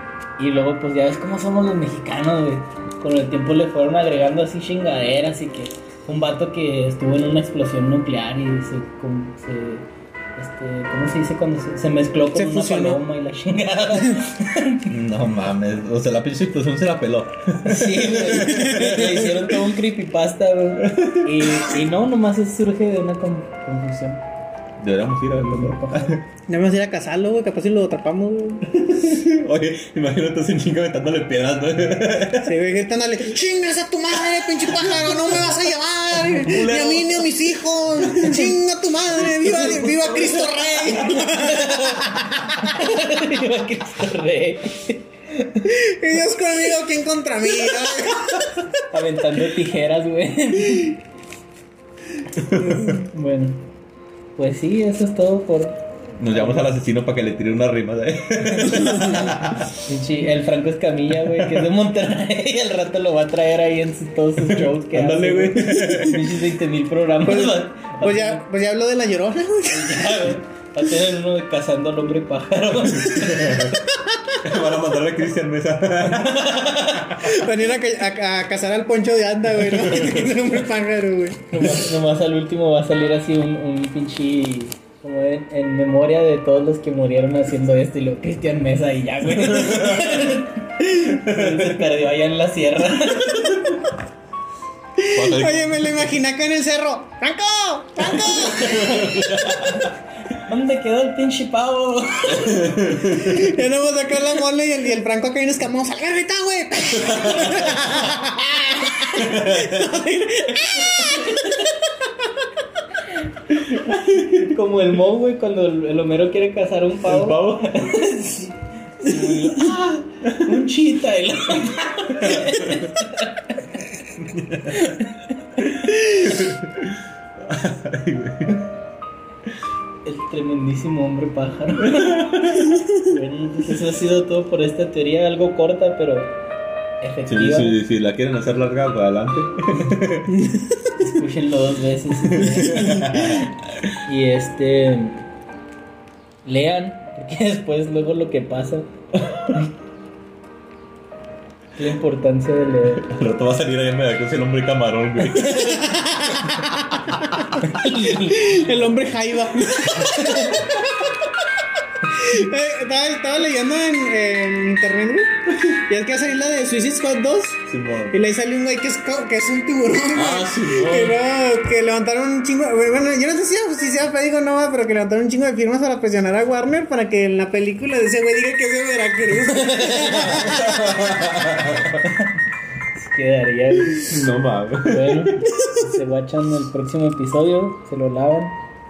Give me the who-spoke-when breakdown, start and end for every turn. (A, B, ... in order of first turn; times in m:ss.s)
0:00.4-0:09.8 A
0:10.4-0:14.9 A
0:12.3-0:13.0 B
0:14.9-0:19.6 C
0:17.6-0:24.2 A
0:20.8-0:21.7 C
0:24.8-0:26.2 C
0:25.3-0:26.2 A
0:26.5-0:28.6 B
0:28.6-0:32.6 C
0:32.4-0:42.7 B
0:34.4-0:35.5 C
0:36.1-0:38.5 C
0:39.3-0:45.7 A
0:45.6-0:48.7 B
0:48.9-0:51.0 A
0:52.4-0:53.0 C
0:52.6-0:53.6 A
0:54.4-0:55.8 A
0:56.2-0:59.7 C
0:56.3-0:56.7 A
0:59.8-1:08.4 A
1:04.4-1:06.4 C
1:07.2-1:10.3 B
1:09.6-1:13.5 A
1:13.0-1:13.8 C
1:13.5-1:14.4 B
1:14.4-1:17.3 C
1:16.2-1:17.2 A
1:17.2-1:21.5 B
1:19.6-1:20.2 C
1:21.5-1:33.7 A
1:29.3-1:30.3 C
1:30.9-1:31.9 C
1:33.4-1:33.7 C
1:35.0-1:39.1 B
1:35.1-1:36.0 C
1:38.2-1:42.7 A
1:38.5-1:39.9 C
1:42.3-1:43.4 C
1:43.0-1:51.6 B
1:47.0-1:47.8 C
1:49.2-1:49.9 C
1:50.6-1:51.7 A
1:53.5-1:54.5 C
1:54.1-2:03.7 A
1:57.0-1:57.9 C
1:59.0-2:00.5 C
2:02.1-2:02.9 C
2:04.1-2:05.0 C
2:04.7-2:05.9 A
2:05.6-2:08.7 C
2:10.0-2:16.3 A
2:11.8-2:12.7 C
2:17.0-2:17.8 A
2:17.3-2:20.4 C
2:20.3-2:21.0 B
2:21.0-2:23.5 A
2:22.2-2:23.5 C
2:24.0-2:25.2 A
2:26.4-2:28.9 A
2:29.1-2:29.5 C
2:31.8-2:33.1 A
2:32.9-2:35.8 C
2:35.3-2:35.9 A
2:35.6-2:41.1 B
2:37.6-2:38.6 A
2:40.2-2:40.6 A
2:42.1-3:01.1 B
2:47.7-2:48.2 C
2:50.1-2:51.2 C
2:59.4-3:00.7 A
3:00.3-3:02.0 C
3:02.0-3:02.3 A
3:02.9-3:04.2 A
3:03.9-3:05.5 C
3:04.8-3:08.6 A